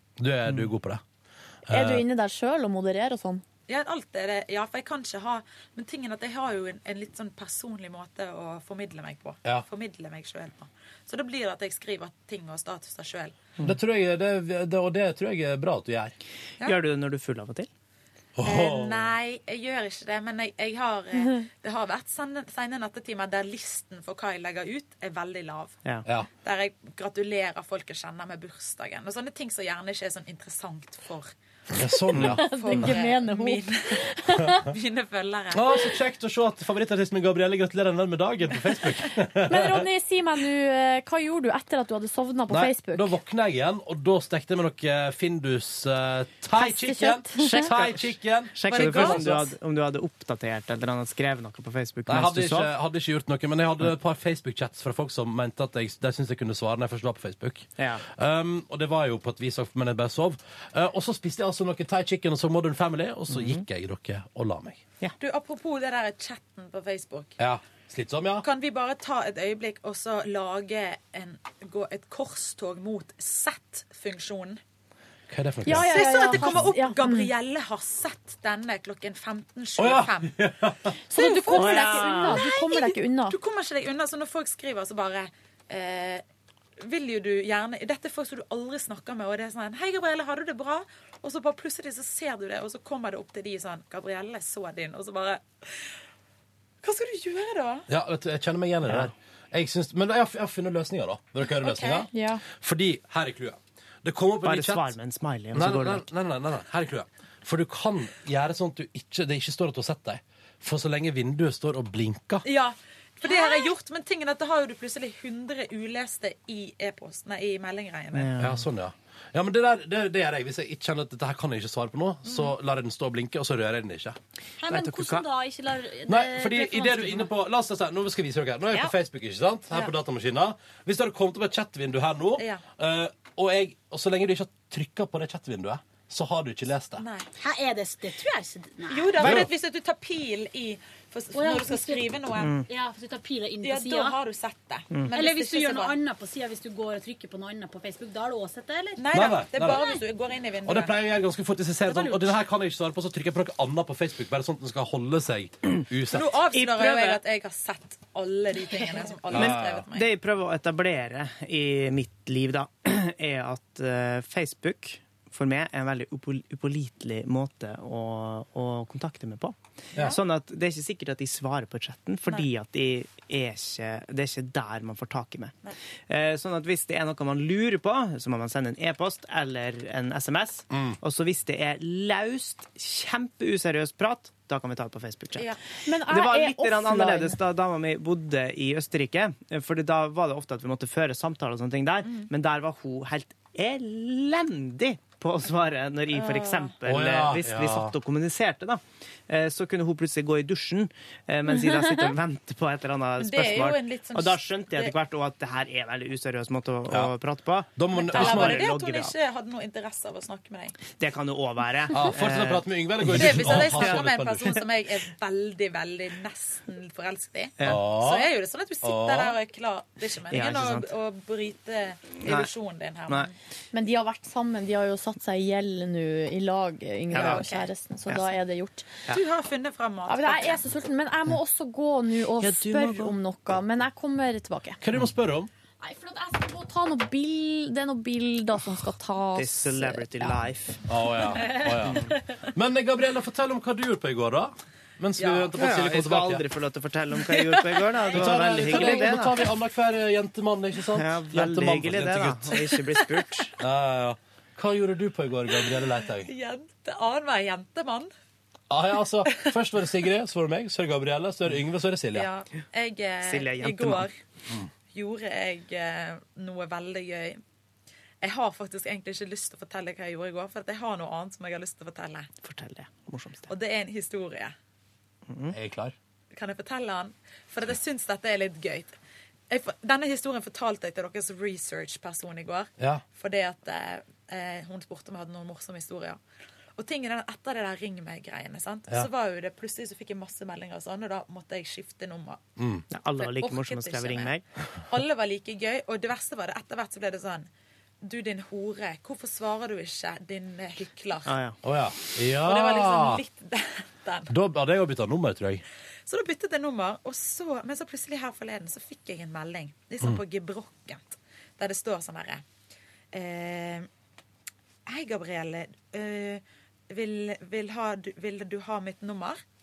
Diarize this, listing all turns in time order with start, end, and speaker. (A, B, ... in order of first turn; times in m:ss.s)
0:00.2-0:01.0 A
0:01.7-0:02.0 A
0:01.7-0:03.4 B
0:03.7-0:13.3 C
0:13.6-0:16.1 A
0:16.6-0:17.7 D
0:18.4-0:19.1 A
0:18.4-0:25.8 C
0:26.4-0:31.3 C
0:31.7-0:32.4 A
0:32.1-0:32.9 D
0:32.2-0:34.6 B
0:32.4-0:35.9 C
0:35.5-0:39.9 A
0:39.5-0:43.2 B
0:42.5-0:49.4 A
0:46.6-0:47.6 B
0:47.4-0:52.7 D
0:48.7-0:49.5 C
0:52.1-1:04.8 A
0:57.8-0:58.0 D
1:03.3-1:03.6 D
1:05.2-1:07.3 C
1:07.4-1:08.4 A
1:08.4-1:14.6 C
1:15.3-1:16.7 A
1:15.6-1:17.3 B
1:15.7-1:20.4 C
1:19.8-1:20.9 A
1:21.1-1:23.4 B
1:21.1-1:26.2 C
1:21.5-1:22.4 D
1:26.8-1:35.8 C
1:36.8-1:37.9 C
1:37.9-1:44.9 A
1:38.9-1:39.1 D
1:41.5-1:42.1 C
1:42.1-1:42.4 B
1:44.4-1:46.1 D
1:45.5-1:52.4 A
1:52.4-1:58.3 C
1:58.1-1:58.6 D
1:58.4-2:04.2 A
2:04.6-2:07.3 E
2:04.7-2:05.2 D
2:06.1-2:17.0 A
2:12.4-2:12.6 C
2:17.0-2:17.3 C
2:17.4-2:19.2 E
2:18.9-2:22.5 C
2:19.2-2:19.5 A
2:21.3-2:24.2 E
2:22.4-2:22.6 D
2:23.6-2:26.0 C
2:25.1-2:29.1 E
2:29.0-2:31.0 C
2:29.1-2:29.8 A
2:30.6-2:36.3 A
2:36.1-2:40.1 C
2:36.5-2:37.2 D
2:39.3-2:39.8 A
2:39.3-2:55.6 D
2:49.9-2:50.2 A
2:56.1-3:05.5 D
3:00.7-3:01.0 A
3:05.8-3:07.4 B
3:06.1-3:29.1 D
3:16.1-3:16.7 C
3:16.8-3:17.9 A
3:23.2-3:24.9 C
3:27.8-3:28.7 A
3:27.9-3:30.8 C
3:30.9-3:34.1 D
3:31.9-3:34.6 A
3:33.1-3:43.3 C
3:37.6-3:39.4 A
3:40.3-3:40.9 D
3:42.2-3:42.5 D
3:43.7-3:48.9 B
3:47.1-3:47.7 C
3:47.1-3:47.4 D
3:49.1-3:50.6 C
3:50.1-3:54.8 B
3:52.4-3:53.1 D
3:54.8-3:55.5 A
3:55.8-4:00.3 B
3:59.4-4:00.8 D
4:00.9-4:06.4 A
4:01.8-4:02.1 D
4:05.2-4:05.5 C
4:05.5-4:09.4 D
4:08.1-4:12.6 A
4:10.9-4:13.5 D
4:13.6-4:16.3 A
4:16.2-4:18.1 C
4:18.7-4:22.3 A
4:22.1-4:24.1 C
4:23.2-4:24.1 D
4:24.9-4:27.4 C
4:28.2-4:32.3 C
4:32.4-4:33.5 D
4:33.5-4:34.5 C
4:35.3-4:35.6 D
4:35.5-4:35.9 A
4:36.3-4:39.0 C
4:39.5-4:46.2 C
4:42.8-4:43.0 A
4:46.8-4:52.4 C
4:52.6-4:52.8 A
4:52.9-4:54.4 D
4:53.2-4:54.3 C
4:54.9-4:57.5 C
4:58.0-5:01.3 C
5:01.2-5:01.6 D
5:01.6-5:03.2 A
5:02.4-5:04.3 C
5:04.3-5:05.6 A
5:06.1-5:12.4 C
5:13.1-5:13.9 C
5:14.9-5:19.4 C